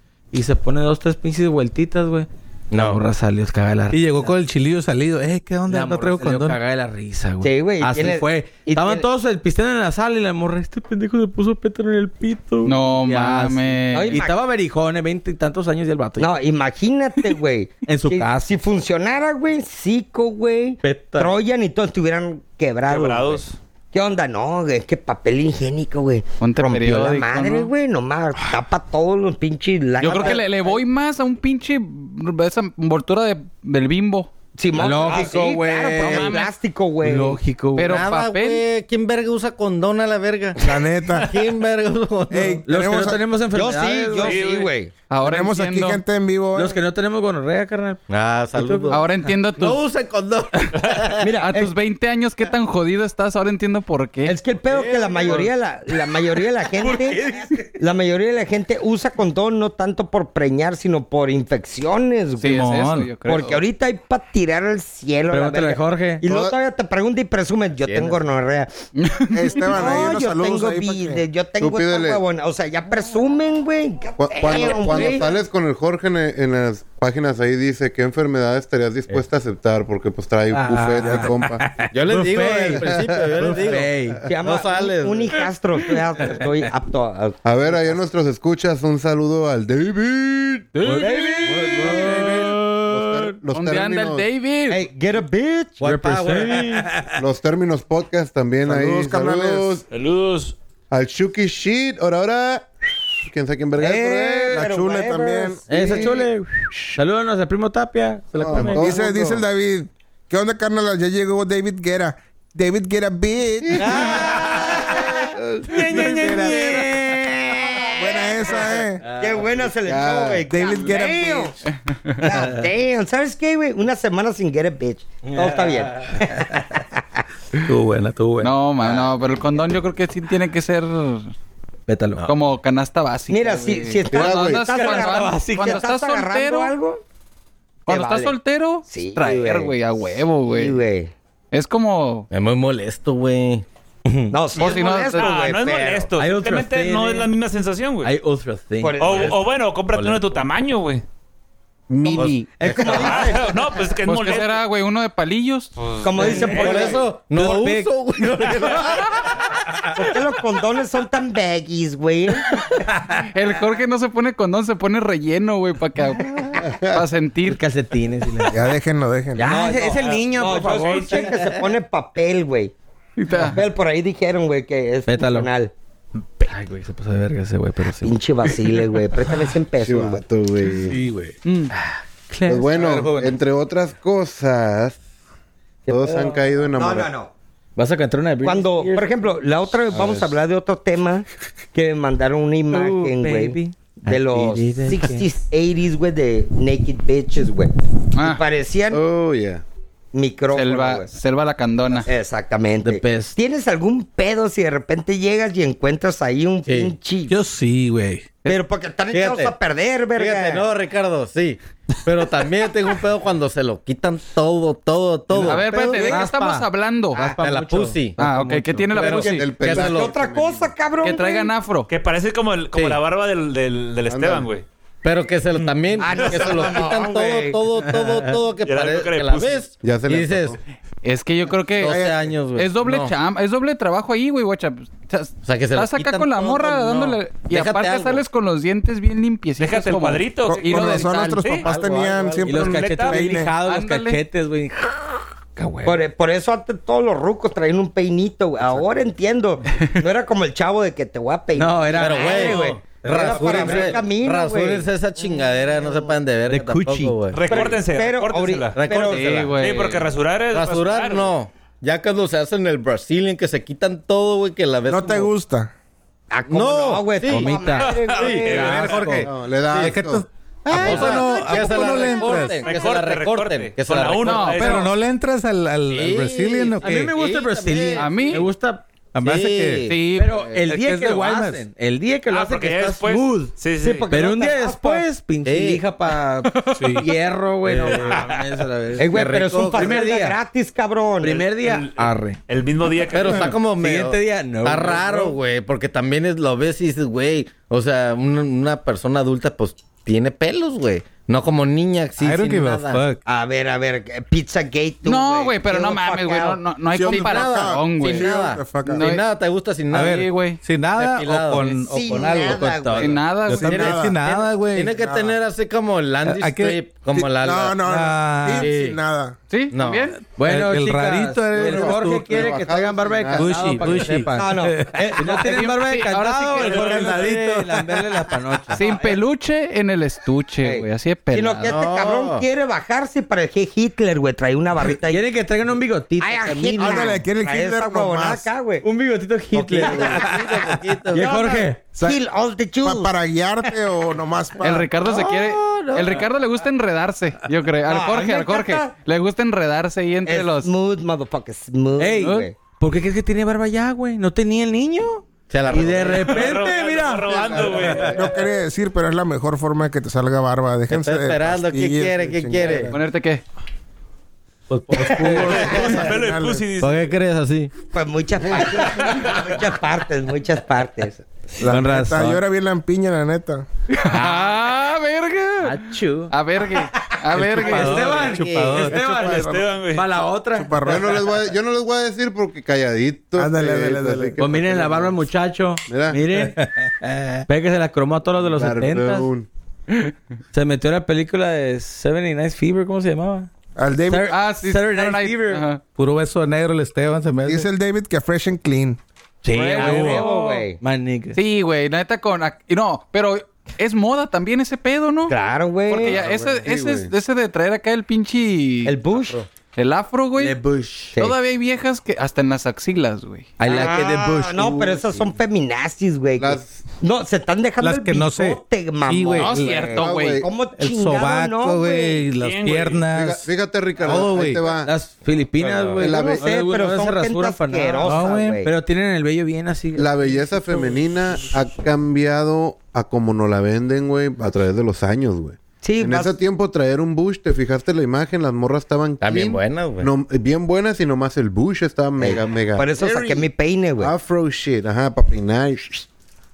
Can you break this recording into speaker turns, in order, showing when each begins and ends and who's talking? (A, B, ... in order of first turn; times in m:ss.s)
0:00.3-0:04.3 A
0:02.7-0:03.0 B
0:03.9-0:06.6 C
0:05.7-0:16.3 A
0:07.4-0:09.0 D
0:12.6-0:14.2 E
0:13.9-0:14.4 D
0:16.2-0:23.4 D
0:17.8-0:18.5 A
0:20.8-0:21.3 A
0:22.9-0:23.6 F
0:23.9-0:30.8 D
0:26.4-0:27.7 E
0:30.0-0:34.3 E
0:34.6-0:37.4 D
0:34.7-0:36.3 A
0:36.0-0:36.5 E
0:37.0-0:37.9 A
0:37.7-0:38.6 E
0:37.8-0:42.6 B
0:40.6-0:41.4 G
0:42.3-0:43.2 G
0:42.6-0:44.4 A
0:43.5-0:44.9 D
0:44.2-0:44.7 F
0:45.1-0:46.0 E
0:45.2-0:46.8 G
0:46.5-0:48.0 A
0:48.1-0:51.3 B
0:48.5-0:49.0 A
0:48.9-0:49.8 E
0:51.2-0:51.7 D
0:51.2-0:54.4 E
0:54.2-0:57.2 D
0:54.7-0:55.5 B
0:54.8-0:55.5 A
0:56.8-0:57.7 A
0:57.8-1:02.7 D
1:02.4-1:03.6 E
1:02.5-1:03.1 C
1:03.2-1:08.7 D
1:05.3-1:06.2 A
1:06.2-1:06.6 H
1:07.8-1:08.2 B
1:09.0-1:09.6 E
1:09.3-1:11.2 G
1:09.7-1:15.3 D
1:11.6-1:12.2 H
1:14.2-1:21.6 H
1:14.7-1:15.2 A
1:20.5-1:24.2 A
1:21.9-1:25.4 B
1:24.2-1:27.4 D
1:27.4-1:30.8 H
1:30.7-1:33.3 A
1:31.5-1:32.5 B
1:31.5-1:34.3 H
1:33.5-1:34.8 E
1:34.7-1:36.0 D
1:35.8-1:36.9 B
1:35.8-1:37.2 A
1:37.2-1:39.8 H
1:38.6-1:39.8 G
1:39.9-1:40.5 F
1:40.9-1:44.7 H
1:43.8-1:46.2 D
1:44.5-1:46.0 G
1:45.7-1:49.0 A
1:45.7-1:46.2 H
1:48.4-1:49.4 H
1:48.5-1:54.2 G
1:53.8-1:57.3 A
1:53.9-1:55.2 D
1:55.4-1:55.9 H
1:55.8-1:56.9 G
1:55.9-2:01.6 D
1:58.0-1:59.0 G
1:59.0-1:59.5 A
1:59.8-2:00.5 H
2:00.4-2:01.5 G
2:01.9-2:02.2 E
2:02.2-2:07.0 D
2:02.3-2:02.7 A
2:05.2-2:06.6 A
2:07.6-2:08.5 A
2:08.4-2:11.3 E
2:11.9-2:12.2 A
2:12.2-2:16.7 E
2:13.3-2:17.0 D
2:14.1-2:14.6 H
2:14.6-2:15.8 A
2:17.9-2:18.3 D
2:17.9-2:20.8 E
2:18.9-2:21.1 D
2:21.5-2:22.3 E
2:22.3-2:23.6 B
2:24.0-2:24.4 A
2:24.3-2:26.1 D
2:24.6-2:25.3 E
2:24.6-2:28.1 F
2:26.2-2:27.3 A
2:28.0-2:29.3 A
2:28.8-2:29.4 D
2:29.0-2:31.0 F
2:29.9-2:30.3 B
2:31.9-2:32.6 H
2:32.0-2:33.6 D
2:32.1-2:33.4 B
2:32.8-2:34.6 F
2:32.8-2:33.3 A
2:34.0-2:35.7 E
2:35.8-2:37.0 F
2:36.0-2:37.0 D
2:36.2-2:38.5 A
2:36.5-2:39.3 B
2:39.9-2:42.6 D
2:43.2-2:47.6 E
2:47.4-2:48.6 A
2:48.5-2:49.6 G
2:49.3-2:51.4 A
2:49.4-2:52.7 D
2:49.8-2:51.4 F
2:53.2-2:53.6 E
2:53.3-2:55.7 D
2:55.1-2:55.5 A
2:56.4-2:58.2 A
2:58.0-3:00.2 D
2:59.8-3:01.0 H
3:00.8-3:01.3 C
3:01.4-3:01.7 E
3:01.7-3:03.4 A
3:02.5-3:05.0 H
3:05.9-3:06.2 D
3:05.9-3:07.1 H
3:05.9-3:06.5 A
3:06.7-3:07.3 D
3:07.8-3:09.1 A
3:08.4-3:19.0 D
3:09.9-3:10.3 H
3:12.7-3:15.3 A
3:18.1-3:18.4 E
3:18.9-3:19.6 H
3:20.1-3:21.1 D
3:20.5-3:22.1 E
3:21.9-3:27.3 D
3:22.8-3:23.4 A
3:26.6-3:26.9 B
3:27.3-3:28.4 C
3:28.4-3:30.7 D
3:29.1-3:29.5 B
3:30.1-3:36.2 B
3:35.3-3:37.2 E
3:35.4-3:39.2 A
3:37.4-3:38.2 B
3:38.2-3:39.5 E
3:38.9-3:40.1 B
3:39.0-3:40.7 H
3:39.6-3:41.5 D
3:41.0-3:41.9 E
3:41.9-3:44.6 F
3:44.1-3:44.5 H
3:45.0-3:50.6 B
3:46.0-3:47.6 D
3:47.9-3:48.4 A
3:48.6-3:49.6 F
3:49.8-3:50.6 H
3:51.0-3:52.0 E
3:51.8-3:53.1 B
3:51.8-3:52.3 G
3:52.6-4:01.4 E
3:55.4-3:58.2 B
3:59.6-4:01.6 F
4:00.4-4:03.6 G
4:00.9-4:02.9 B
4:02.4-4:05.0 A
4:02.6-4:03.3 F
4:03.6-4:04.2 E
4:05.6-4:06.0 A
4:05.8-4:15.5 D
4:11.5-4:14.0 A
4:11.9-4:17.7 B
4:16.5-4:17.1 A
4:16.5-4:17.0 C
4:17.3-4:18.8 F
4:17.4-4:19.6 D
4:18.7-4:19.8 B
4:19.1-4:19.5 E
4:19.4-4:20.0 A
4:19.5-4:21.3 F
4:20.5-4:25.3 B
4:24.9-4:25.7 G
4:26.3-4:29.2 D
4:26.5-4:30.1 B
4:27.2-4:29.3 A
4:27.7-4:29.2 F
4:29.2-4:30.2 H
4:29.7-4:32.7 C
4:30.6-4:34.8 B
4:30.8-4:31.1 E
4:32.2-4:34.9 F
4:34.2-4:34.8 E
4:34.4-4:37.1 C
4:35.9-4:38.1 B
4:36.8-4:38.9 A
4:38.0-4:38.5 E
4:39.1-4:39.9 C
4:39.2-4:40.0 B
4:39.8-4:40.5 E
4:40.1-4:43.5 A
4:40.5-4:41.7 C
4:42.3-4:44.1 F
4:43.8-4:45.1 D
4:44.1-4:50.4 A
4:45.4-4:45.8 B
4:46.8-4:47.1 C
4:47.6-4:48.2 B
4:48.0-4:48.6 F
4:49.0-4:51.5 D
4:49.0-4:50.2 B
4:51.2-4:52.4 A
4:51.6-4:53.6 F
4:53.1-5:03.1 B
4:53.2-4:55.4 A
5:02.2-5:03.2 C
5:03.2-5:06.6 D
5:05.0-5:08.3 E
5:06.9-5:09.0 G
5:07.0-5:10.2 B
5:08.8-5:09.2 E
5:09.9-5:10.6 E
5:09.9-5:12.7 C
5:10.9-5:12.4 B
5:11.6-5:11.8 E
5:11.9-5:13.2 D
5:12.0-5:14.5 A
5:13.0-5:14.0 E
5:13.5-5:14.2 G
5:13.5-5:14.9 C
5:14.6-5:17.8 B
5:15.0-5:15.2 G
5:16.2-5:16.9 C
5:17.1-5:19.4 G
5:17.8-5:18.7 C
5:18.5-5:19.0 B
5:19.5-5:20.2 E
5:19.7-5:20.1 B
5:20.3-5:29.0 A
5:20.4-5:22.5 C
5:21.6-5:24.2 H
5:23.3-5:25.1 C
5:24.3-5:25.1 D
5:25.2-5:27.2 E
5:26.6-5:27.2 F
5:26.9-5:28.0 C
5:28.7-5:31.7 E
5:30.6-5:35.3 D
5:31.6-5:32.4 B
5:35.0-5:37.1 A
5:36.2-5:38.8 D
5:36.8-5:38.5 G
5:38.8-5:40.5 A
5:39.5-5:41.3 B
5:39.8-5:40.4 D
5:41.1-5:41.9 A
5:41.1-5:43.1 D
5:41.9-5:42.2 G
5:42.8-5:44.9 G
5:44.6-5:50.7 E
5:45.0-5:46.2 A
5:47.8-5:48.9 D
5:50.2-5:52.6 D
5:52.0-5:58.2 A
5:55.5-5:56.5 B
5:56.1-5:58.2 F
5:58.1-6:03.0 G
6:00.9-6:02.9 B
6:02.9-6:03.4 E
6:04.9-6:05.6 A
6:04.9-6:06.0 B
6:04.9-6:06.6 G
6:05.4-6:06.0 D
6:05.4-6:07.0 F
6:06.8-6:07.7 B
6:07.9-6:11.2 D
6:11.6-6:13.6 G
6:11.7-6:12.4 C
6:14.0-6:18.2 E
6:14.1-6:14.5 A
6:15.6-6:21.2 A
6:17.4-6:19.0 B
6:18.9-6:19.6 G
6:19.0-6:20.1 F
6:20.5-6:21.2 G
6:20.8-6:25.2 H
6:23.4-6:24.4 G
6:24.4-6:29.3 A
6:25.9-6:26.4 H
6:28.4-6:29.5 H
6:30.5-6:33.5 A
6:33.8-6:34.3 G
6:34.1-6:35.6 A
6:34.3-6:35.8 E
6:35.9-6:37.6 C
6:37.4-6:39.0 G
6:39.4-6:41.4 A
6:39.5-6:40.1 E
6:39.7-6:40.8 D
6:39.8-6:40.2 C
6:41.3-6:45.3 E
6:45.3-6:46.2 D
6:45.9-6:49.0 E
6:46.0-6:47.1 H
6:48.8-6:49.5 D
6:49.7-6:50.6 E
6:50.4-6:51.2 A
6:51.2-6:53.5 E
6:53.6-6:55.0 A
6:53.7-7:02.2 D
6:56.4-6:56.8 H
6:57.8-6:59.9 C
6:59.3-7:00.4 E
6:59.8-7:00.5 H
7:00.8-7:03.4 C
7:02.4-7:03.0 F
7:03.1-7:04.9 H
7:04.0-7:04.6 C
7:04.1-7:11.0 A
7:05.7-7:06.0 B
7:06.0-7:06.5 H
7:06.0-7:08.7 D
7:08.0-7:08.6 C
7:09.9-7:23.5 H
7:15.8-7:16.3 D
7:19.2-7:20.1 B
7:22.2-7:24.1 D
7:24.0-7:26.1 H